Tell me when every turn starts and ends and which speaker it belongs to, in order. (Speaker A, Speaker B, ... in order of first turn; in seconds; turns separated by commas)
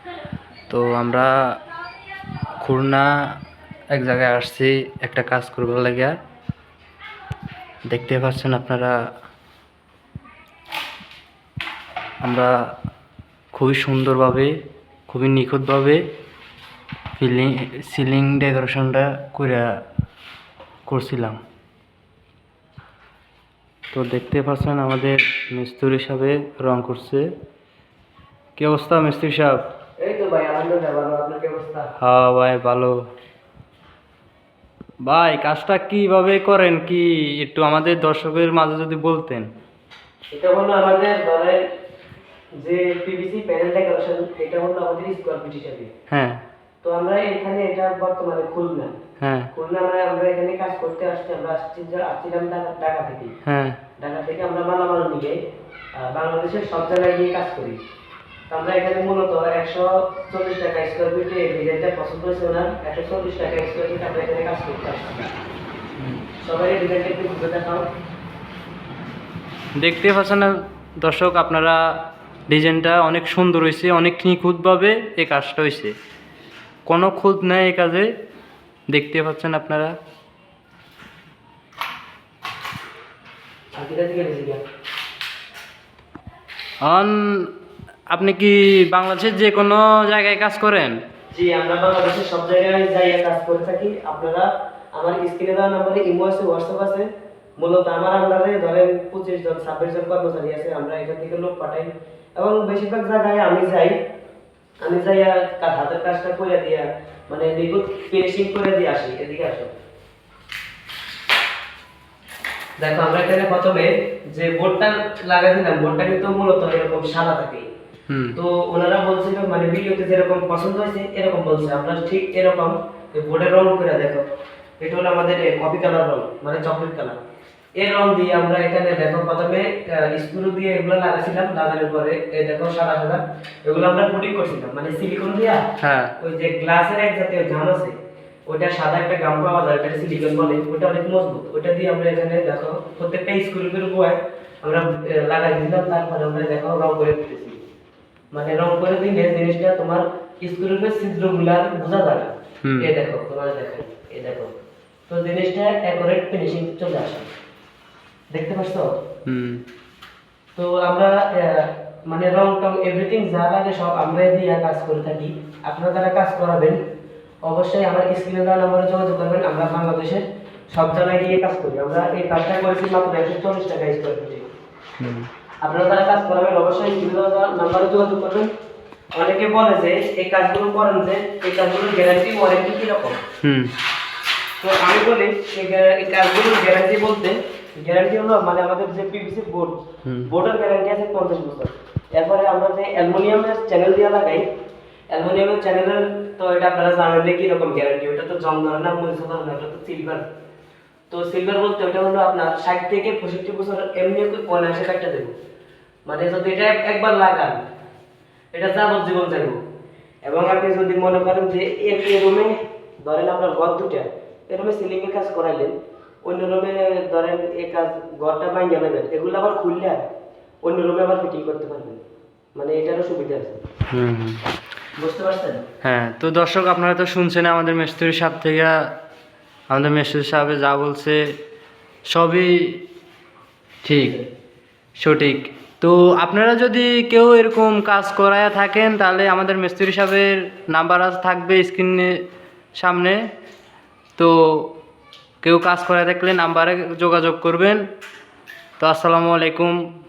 Speaker A: 0.7-1.3, Speaker A: 2.6-3.1, Speaker A: 3.9-6.2, Speaker A: 7.9-8.9, Speaker A: 12.2-12.5, Speaker A: 13.5-14.5, Speaker A: 15.1-16.0, Speaker A: 17.2-19.7, Speaker A: 20.9-21.4, Speaker A: 23.9-27.3, Speaker A: 28.6-29.7, Speaker B: 30.0-31.9, Speaker A: 32.0-33.0, Speaker A: 35.0-39.5, Speaker B: 40.3-41.6, Speaker B: 42.6-45.9, Speaker A: 46.1-46.4, Speaker B: 46.8-48.9, Speaker A: 49.2-49.5, Speaker B: 49.5-53.3, Speaker A: 53.5-53.8, Speaker B: 54.0-55.4, Speaker B: 56.0-57.8, Speaker B: 58.5-65.3, Speaker B: 66.4-67.9, Speaker A: 69.8-71.8, Speaker A: 72.5-76.0, Speaker A: 76.9-78.1, Speaker A: 78.9-79.9, Speaker B: 83.8-84.6, Speaker A: 86.8-87.5, Speaker A: 88.1-91.0, Speaker B: 91.3-97.1, Speaker B: 97.6-104.0, Speaker B: 104.8-109.7, Speaker B: 112.8-117.7, Speaker A: 118.1-118.4, Speaker B: 118.4-124.3, Speaker B: 124.8-127.2, Speaker B: 127.8-135.6, Speaker A: 135.8-136.1, Speaker B: 136.2-137.9, Speaker B: 138.5-147.6, Speaker B: 148.3-154.6, Speaker A: 152.6-152.9, Speaker B: 155.1-157.3, Speaker B: 158.3-158.9, Speaker A: 159.3-159.6, Speaker B: 160.6-166.8, Speaker B: 167.4-170.2, Speaker B: 170.7-174.4, Speaker A: 175.0-175.3, Speaker B: 175.6-178.5, Speaker B: 179.2-183.2, Speaker A: 183.4-183.7, Speaker B: 184.6-189.8, Speaker B: 190.3-194.4, Speaker B: 195.1-200.2, Speaker B: 201.1-205.3, Speaker B: 206.1-207.6, Speaker B: 208.5-209.6, Speaker B: 210.2-220.0, Speaker B: 220.6-222.0, Speaker B: 222.6-223.6, Speaker A: 223.9-224.4, Speaker B: 225.0-225.6, Speaker A: 225.8-228.8, Speaker A: 229.7-231.2, Speaker A: 232.1-232.8, Speaker A: 233.8-234.2, Speaker B: 233.9-234.3, Speaker A: 235.0-242.2, Speaker A: 242.8-243.2, Speaker A: 244.2-244.7, Speaker A: 245.4-247.8, Speaker A: 248.8-249.8